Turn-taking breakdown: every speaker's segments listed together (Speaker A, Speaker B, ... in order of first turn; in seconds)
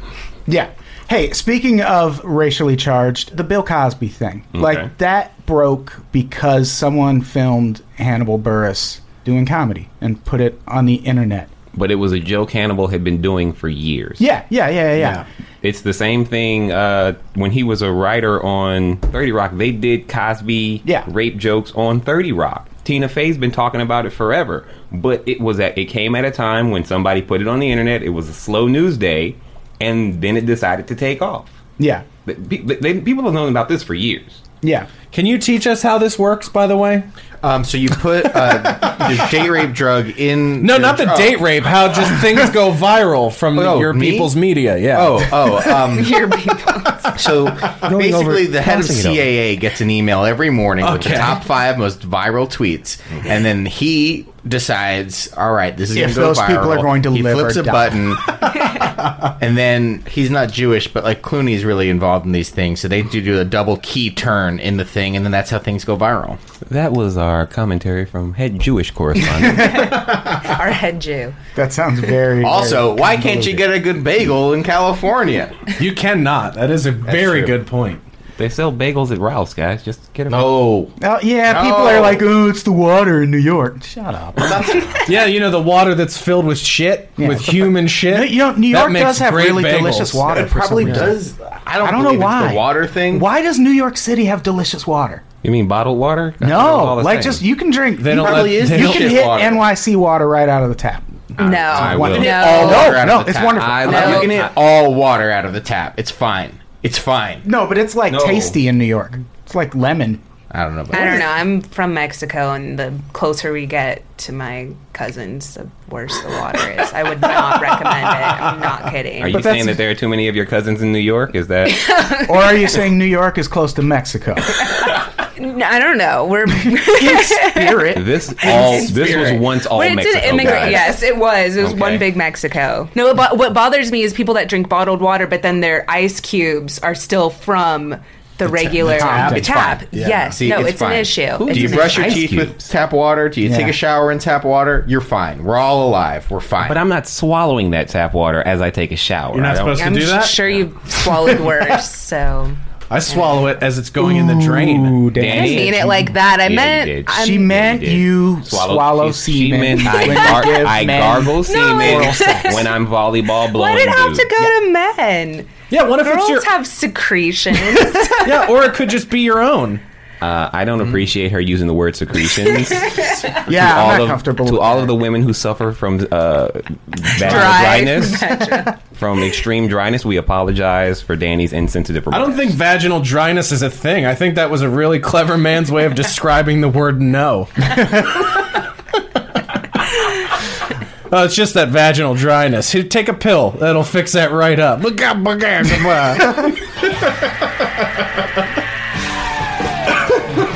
Speaker A: 0.5-11.5, 14.2-15.2, 31.8-32.0, 34.6-34.9, 47.8-48.3, 55.9-58.1, 69.3-70.0, 71.5-73.7, 81.0-85.0, 87.2-91.2, 91.8-95.2, 96.4-104.3, 107.4-110.2, 119.3-119.8, 122.2-124.6, 126.8-129.3, 138.8-139.5, 143.4-143.8, 154.0-156.1, 157.1-162.6, 173.4-174.9
Speaker B: 4.5-4.9, 11.7-14.2, 15.6-31.5, 32.2-34.4, 47.7-49.2, 66.7-70.0, 78.4-80.5, 95.4-97.4, 101.4-104.5, 108.1-108.6, 119.2-121.9, 127.9-130.9, 131.6-132.0, 141.4-142.7, 146.6-149.8, 155.2-155.9, 156.4-164.3, 170.2-182.5
Speaker C: 35.1-37.1, 38.3-39.2, 40.6-45.6, 50.8-51.4, 75.8-78.0, 85.0-91.1, 98.0-99.2, 149.3-151.5, 152.9-155.0, 165.7-166.5, 167.7-169.8, 182.1-188.4, 191.1-196.5
Speaker D: 37.4-41.4, 43.5-44.3, 44.9-46.3, 47.1-58.9, 59.4-66.4, 70.0-70.5, 72.4-75.5, 77.1-77.5, 80.3-80.9, 81.5-82.2, 84.3-85.1, 90.2-93.3, 98.1-99.6, 101.9-107.5, 110.5-111.3, 138.4-146.8
Speaker E: 45.9-47.1, 69.6-71.3, 101.4-103.0, 103.8-104.3, 110.9-119.5, 121.7-122.7, 125.4-142.3, 149.8-152.6, 153.1-153.4, 155.3-157.5, 161.4-162.7, 163.5-168.5, 172.7-173.3, 177.2-178.7